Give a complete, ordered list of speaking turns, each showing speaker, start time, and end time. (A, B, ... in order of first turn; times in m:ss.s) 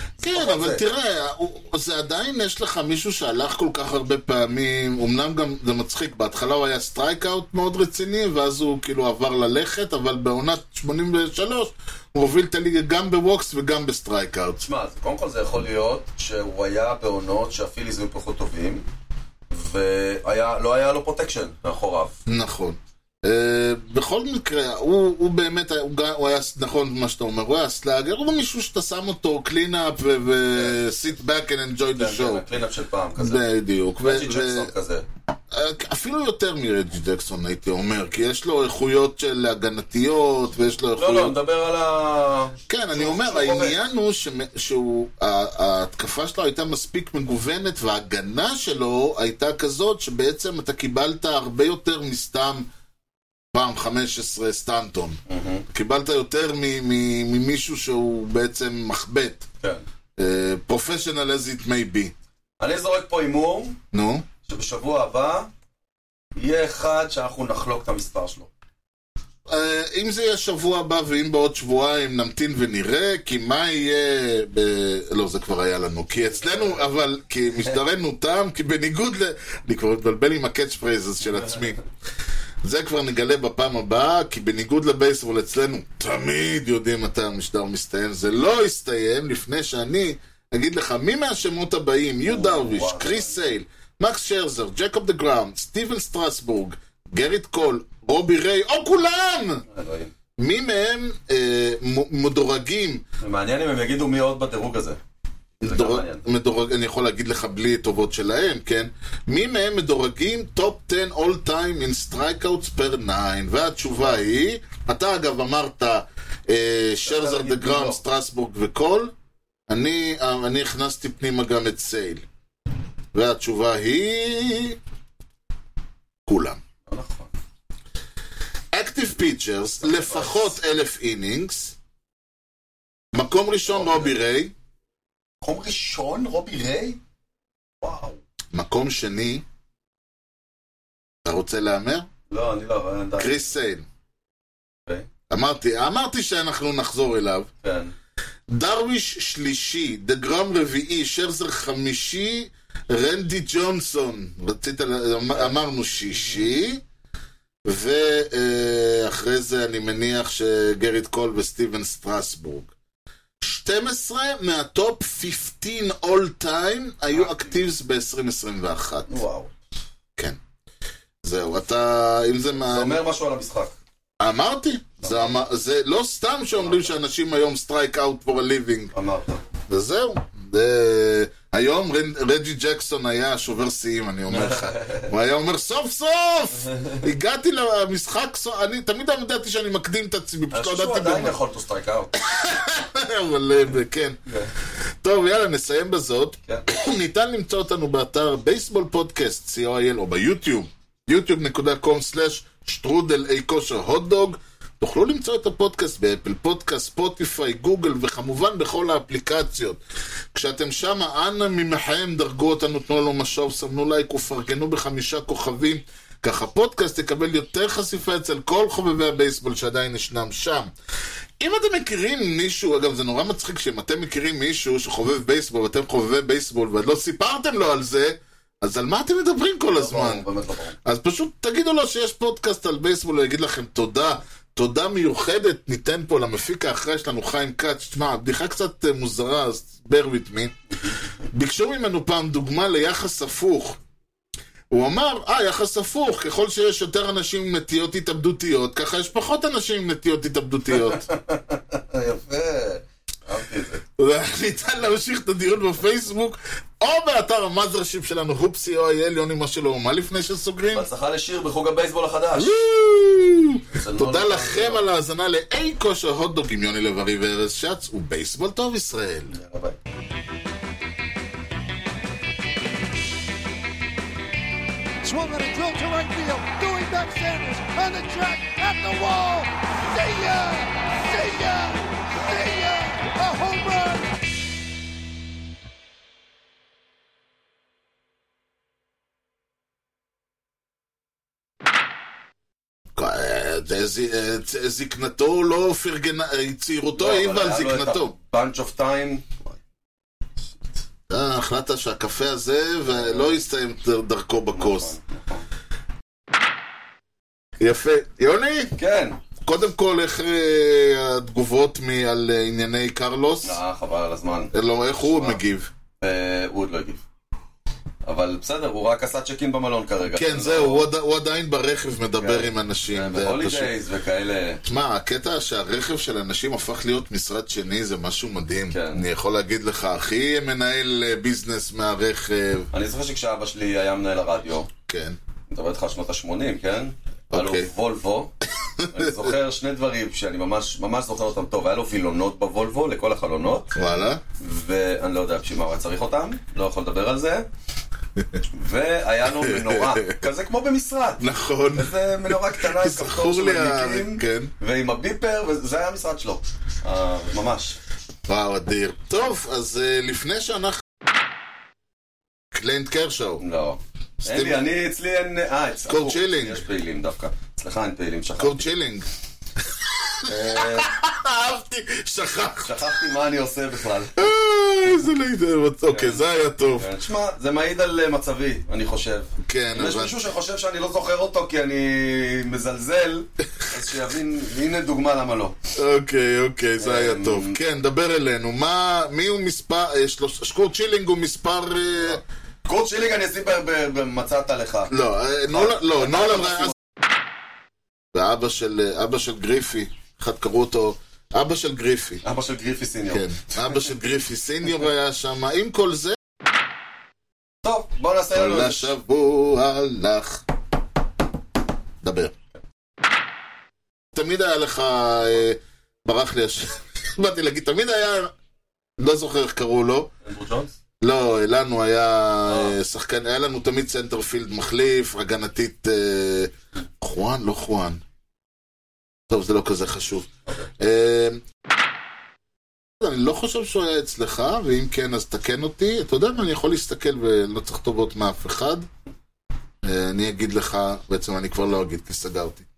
0:00.2-0:00.8 A
0:00.2-0:14.6 B
0:14.6-0:18.8 A
0:19.5-0:22.2 A
0:22.3-0:32.4 B
0:30.5-0:30.8 A
0:32.0-0:33.4 A
0:33.2-0:34.7 B
0:34.0-0:35.0 A
0:35.5-0:41.4 B
0:41.0-0:43.8 A
0:42.7-0:52.7 B
0:53.5-0:59.5 B
0:55.3-0:55.6 A
1:00.2-1:02.1 B
1:02.6-1:03.8 A
1:03.9-1:04.3 B
1:04.4-1:05.5 A
1:06.4-1:08.5 A
1:09.5-1:21.8 B
1:16.4-1:16.8 A
1:21.2-1:21.8 A
1:22.6-1:39.6 B
1:32.3-1:33.4 A
1:39.7-1:40.1 A
1:40.4-1:43.0 B
1:43.2-1:45.0 A
1:45.6-1:59.1 B
1:45.6-1:46.2 A
1:57.0-1:58.0 A
1:59.7-2:02.2 B
2:03.1-2:04.8 B
2:06.3-2:06.6 B
2:06.9-2:07.3 A
2:08.7-2:11.8 B
2:09.8-2:10.6 A
2:13.1-2:14.5 B
2:13.7-2:14.2 A
2:15.4-2:17.0 A
2:17.8-2:18.2 A
2:18.5-2:19.4 B
2:21.2-2:22.1 B
2:22.3-2:23.5 A
2:23.2-2:23.8 B
2:25.3-2:27.5 B
2:27.6-2:27.9 A
2:28.5-2:36.8 B
2:37.7-2:42.7 B
2:43.4-2:49.1 B
2:47.1-2:47.6 A
2:49.1-2:49.5 A
2:51.2-2:53.0 B
2:52.6-2:53.8 A
2:54.2-2:58.9 B
2:55.0-2:55.4 A
2:56.6-2:56.9 A
2:58.9-2:59.4 A
2:59.7-3:11.4 B
3:04.3-3:05.1 A
3:06.6-3:07.1 A
3:10.5-3:12.2 A
3:12.2-3:14.2 B
3:14.3-3:14.5 A
3:15.0-3:29.8 B
3:30.3-3:40.7 B
3:41.4-3:50.2 B
3:49.7-3:50.8 A
3:50.8-4:00.6 B
4:01.3-4:03.8 B
4:04.7-4:11.1 B
4:10.8-4:13.8 A
4:14.0-4:20.9 B
4:20.7-4:22.6 A
4:22.4-4:29.3 B
4:23.8-4:24.8 A
4:29.3-4:29.8 A
4:35.0-4:44.1 C
4:53.0-4:58.1 B
4:57.0-4:59.4 A
5:01.1-5:05.0 B
5:02.8-5:03.4 A
5:04.5-5:05.4 A
5:07.6-5:08.7 B
5:08.8-5:09.2 A
5:09.4-5:13.6 B
5:13.4-5:15.4 A
5:14.5-5:15.7 B
5:16.0-5:17.0 A
5:18.0-5:20.9 A
5:20.0-5:23.7 B
5:22.2-5:24.6 A
5:24.6-5:32.7 B
5:28.7-5:29.0 A
5:32.7-5:34.7 A
5:34.9-5:35.2 B
5:35.5-5:38.3 A
5:37.3-5:37.7 B
5:38.8-5:39.2 B
5:38.9-5:43.7 A
5:43.8-5:44.2 B
5:44.4-5:47.5 A
5:48.5-5:57.8 A
5:49.4-5:50.2 B
5:51.2-5:54.5 B
5:58.3-6:00.8 B
6:02.5-6:03.4 B
6:03.4-6:08.7 A
6:04.2-6:04.6 B
6:05.9-6:06.6 B
6:08.4-6:09.1 B
6:09.9-6:12.9 B
6:10.3-6:10.9 A
6:12.6-6:14.2 A
6:14.2-6:16.9 B
6:15.9-6:25.6 A
6:19.4-6:20.2 B
6:25.8-6:32.2 B
6:26.8-6:27.6 A
6:32.7-6:34.9 A
6:34.9-6:36.7 B
6:35.5-6:36.7 A
6:38.1-6:42.2 B
6:42.2-6:43.9 A
6:43.1-6:46.2 B
6:47.6-6:48.9 A
6:48.3-6:50.4 B
6:52.0-6:52.4 B
6:54.1-6:58.3 B
6:59.0-7:00.1 B
7:00.2-7:00.8 A
7:01.0-7:08.0 B
7:02.5-7:02.8 A
7:09.3-7:11.4 B
7:13.0-7:18.9 B
7:19.8-7:22.7 B